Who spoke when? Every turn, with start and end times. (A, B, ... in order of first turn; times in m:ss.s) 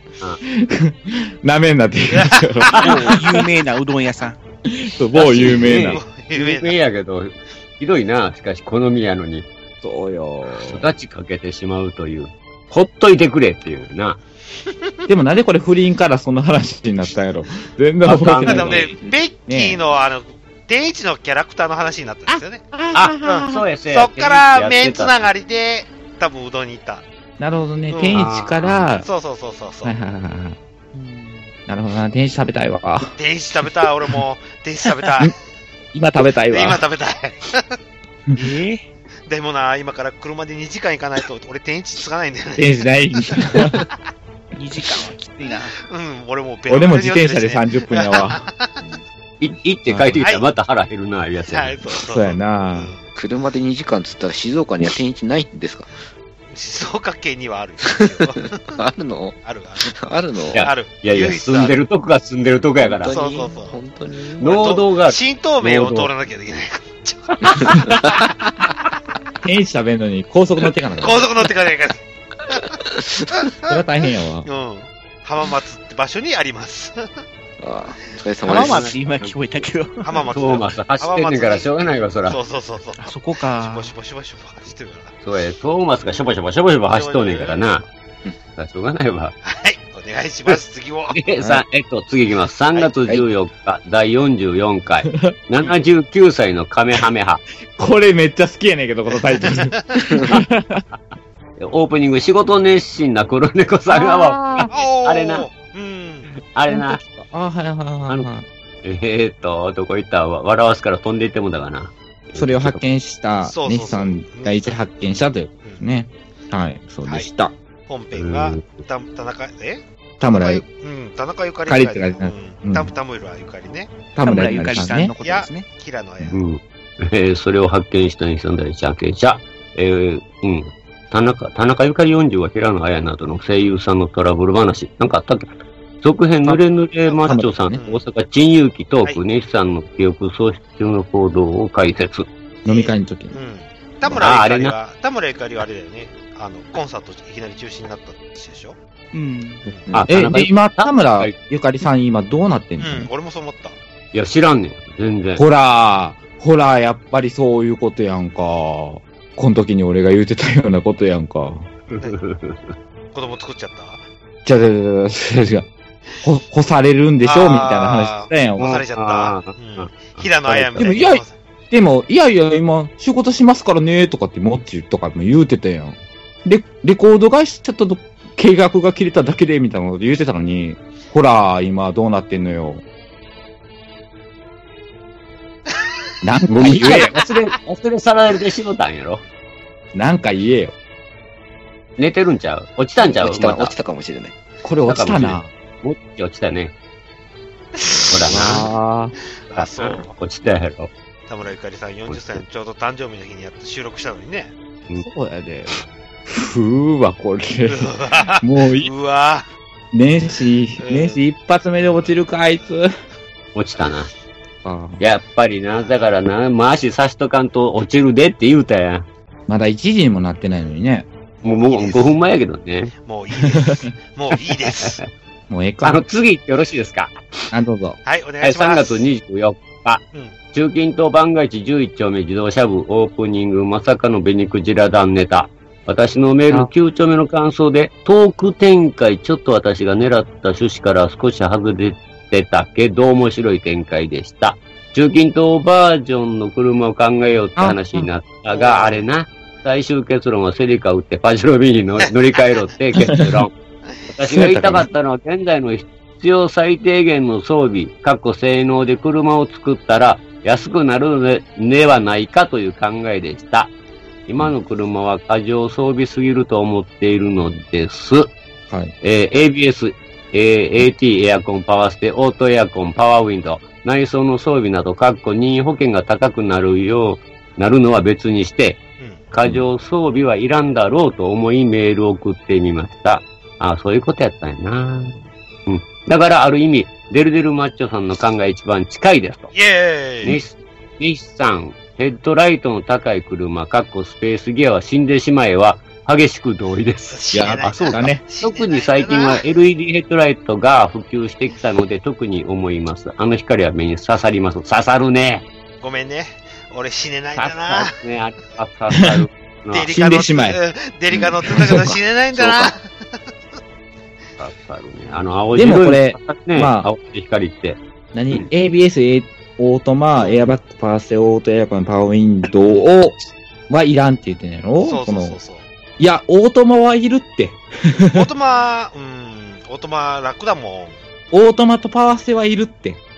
0:00.6-0:03.2 A
0:02.1-0:02.9 B
0:02.8-0:04.4 C
0:04.7-0:06.0 A
0:05.2-0:06.8 B
0:05.2-0:09.4 D
0:09.8-0:10.9 A
0:10.6-0:14.2 D
0:15.1-0:18.9 A
0:18.0-0:18.9 D
0:18.4-0:22.6 B
0:19.5-0:19.8 A
0:22.3-0:23.6 A
0:22.9-0:25.3 D
0:23.2-0:27.0 B
0:27.4-0:29.0 A
0:27.9-0:28.2 B
0:28.1-0:28.9 D
0:29.0-0:29.9 B
0:29.8-0:30.6 A
0:30.9-0:31.5 C
0:31.7-0:33.2 A
0:33.2-0:35.3 B
0:35.9-0:36.8 A
0:36.5-0:37.8 B
0:38.4-0:38.9 C
0:39.2-0:42.9 B
0:42.6-0:43.8 A
0:44.6-0:45.7 C
0:45.9-0:48.8 B
0:46.7-0:48.5 A
0:49.4-0:51.8 D
0:49.9-0:50.2 A
0:50.2-0:50.4 B
0:51.5-0:53.1 B
0:52.1-0:52.9 A
0:53.1-0:55.9 E
0:56.5-0:58.8 B
0:57.8-1:00.7 E
0:59.4-1:01.8 B
1:00.5-1:03.1 D
1:02.8-1:04.5 E
1:03.1-1:03.8 B
1:04.4-1:06.1 D
1:04.4-1:07.9 B
1:07.6-1:08.2 E
1:09.4-1:11.3 A
1:11.0-1:12.6 B
1:12.8-1:13.3 E
1:13.4-1:13.8 B
1:13.7-1:14.4 A
1:14.4-1:17.2 B
1:17.6-1:18.8 E
1:18.4-1:20.1 C
1:18.4-1:19.4 D
1:20.0-1:25.1 B
1:20.3-1:22.4 D
1:23.0-1:23.9 C
1:25.2-1:27.8 D
1:26.9-1:27.8 B
1:28.6-1:29.4 D
1:29.4-1:31.2 B
1:31.1-1:37.4 D
1:37.8-1:40.8 A
1:39.1-1:40.0 B
1:41.6-1:45.5 D
1:43.9-1:44.7 A
1:44.7-1:46.3 B
1:46.5-1:47.0 D
1:46.7-1:48.4 A
1:48.8-1:52.8 D
1:52.4-1:57.5 A
1:53.4-1:55.0 B
1:55.6-1:55.9 B
1:57.0-1:57.3 B
1:57.9-2:04.0 B
1:58.1-1:58.8 D
2:00.2-2:00.6 A
2:01.7-2:02.9 A
2:04.1-2:05.1 A
2:04.2-2:05.7 C
2:04.8-2:06.4 B
2:06.3-2:22.3 D
2:17.0-2:18.0 B
2:17.2-2:17.8 A
2:22.6-2:23.4 A
2:22.6-2:28.8 B
2:24.0-2:24.7 D
2:29.1-2:29.6 C
2:29.6-2:29.9 B
2:29.9-2:31.4 D
2:30.1-2:33.1 A
2:32.8-2:33.8 B
2:34.1-2:35.4 D
2:35.4-2:41.7 A
2:41.9-2:42.8 D
2:43.1-2:44.0 B
2:44.4-2:45.7 A
2:46.2-2:48.7 A
2:47.2-2:51.4 B
2:48.6-2:51.0 D
2:50.8-3:02.8 A
3:06.2-3:07.3 A
3:06.6-3:09.2 D
3:09.9-3:10.7 A
3:12.0-3:13.7 D
3:13.0-3:14.4 E
3:14.6-3:15.5 A
3:14.9-3:16.7 D
3:17.9-3:18.1 B
3:18.1-3:18.7 D
3:18.2-3:18.6 E
3:18.3-3:19.1 A
3:19.5-3:20.1 B
3:19.5-3:20.9 D
3:21.3-3:24.5 B
3:22.1-3:22.4 D
3:25.0-3:28.9 A
3:27.7-3:29.5 B
3:29.9-3:32.9 A
3:30.8-3:31.2 B
3:31.8-3:32.2 B
3:33.5-3:34.1 D
3:34.6-3:35.0 A
3:35.0-3:39.1 D
3:35.7-3:36.1 B
3:39.5-3:41.1 A
3:41.4-3:42.9 D
3:41.6-3:42.1 B
3:43.0-3:45.0 B
3:44.8-3:45.1 D
3:45.5-3:46.0 A
3:45.8-3:47.4 D
3:47.5-3:48.0 A
3:48.0-3:49.0 B
3:48.4-4:13.5 D
4:07.6-4:08.1 A
4:08.5-4:09.0 B
4:14.1-4:23.7 D
4:14.3-4:14.9 A
4:24.3-4:28.3 D
4:28.7-4:28.9 A
4:29.0-4:49.5 D
4:49.5-4:50.4 B
4:50.2-5:05.4 D
4:57.1-4:59.4 B
4:57.3-4:58.2 A
5:05.8-5:07.9 B
5:07.4-5:09.9 D
5:09.7-5:13.2 B
5:09.8-5:10.6 A
5:11.1-5:12.7 E
5:14.4-5:17.8 D
5:15.0-5:15.3 B
5:15.5-5:16.9 A
5:18.1-5:23.2 A
5:20.2-5:20.5 B
5:23.7-5:25.4 A
5:24.8-5:25.6 B
5:26.0-5:28.3 A
5:28.1-5:31.0 B
5:31.3-5:33.0 A